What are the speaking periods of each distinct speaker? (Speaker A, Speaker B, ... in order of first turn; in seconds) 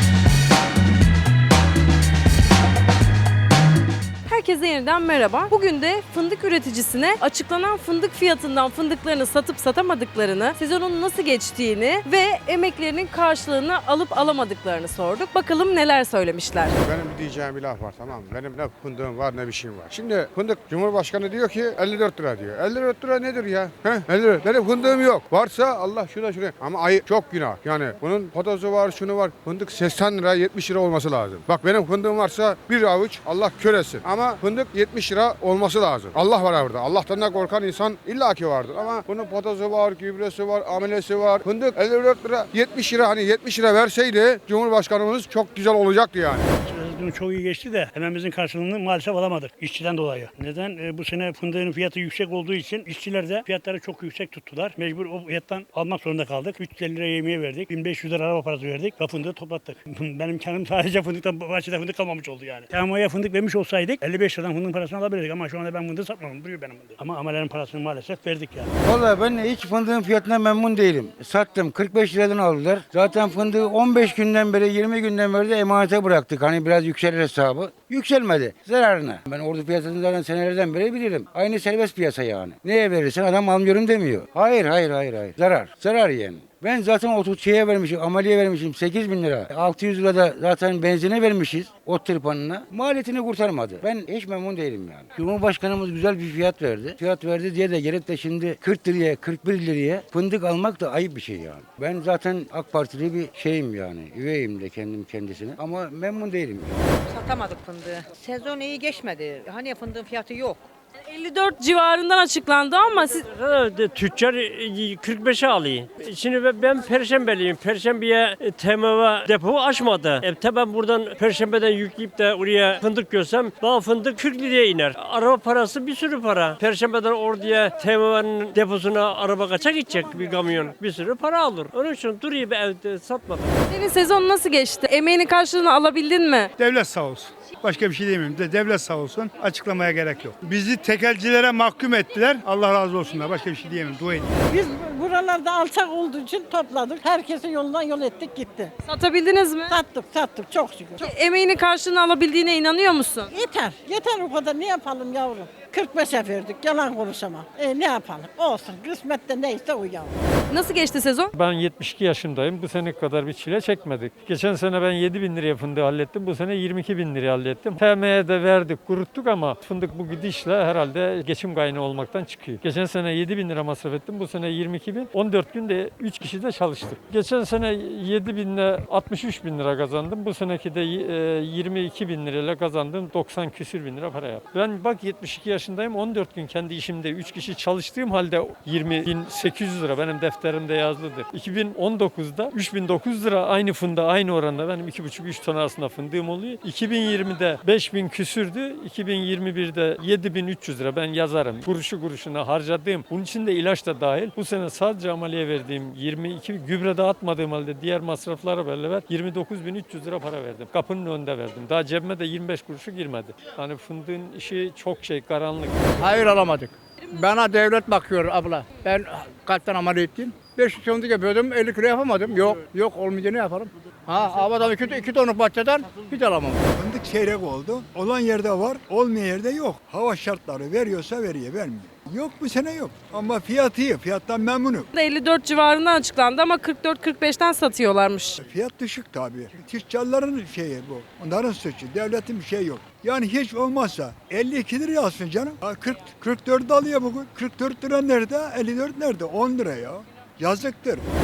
Speaker A: 4.2-16.7, 111.1-113.2, 133.7-136.5, 148.8-149.8, 151.0-153.3, 160.5-161.3, 234.9-238.4
Speaker B: 16.8-46.5
Speaker C: 46.6-68.7
Speaker D: 68.8-106.8
Speaker E: 107.1-110.7
Speaker F: 113.1-133.6
Speaker G: 136.6-144.3
Speaker H: 144.5-148.7, 149.7-151.1, 153.3-160.2
Speaker I: 161.3-216.4
Speaker J: 216.0-226.6
Speaker K: 226.8-234.9, 238.4-251.1